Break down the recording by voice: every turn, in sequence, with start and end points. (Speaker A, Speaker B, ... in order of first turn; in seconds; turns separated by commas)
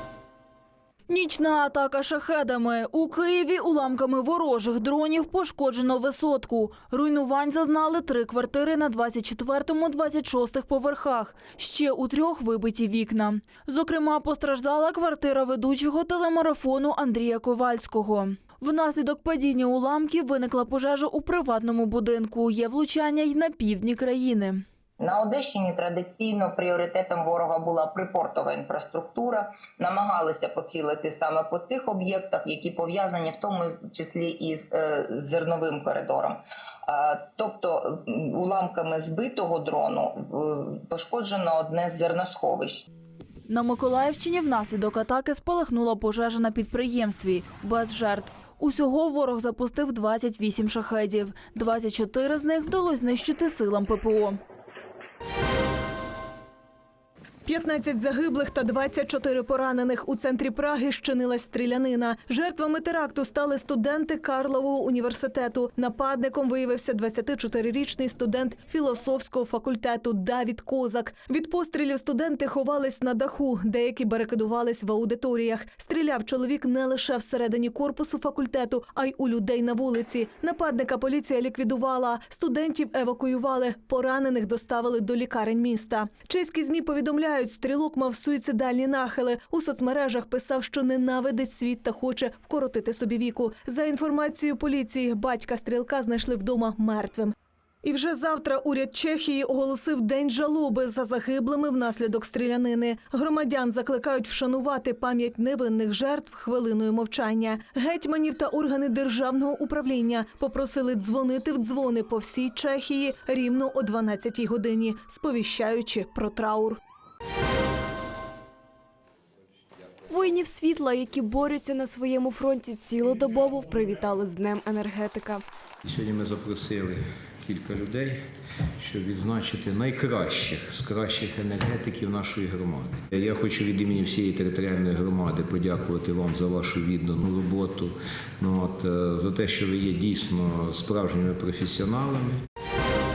Speaker A: 1.1-24.6, Speaker B: 25.0-42.8, Speaker A: 43.5-54.4, Speaker C: 57.5-116.8, Speaker D: 120.1-125.4, Speaker E: 125.8-128.1, Speaker E: 128.8-137.9, Speaker E: 138.4-142.3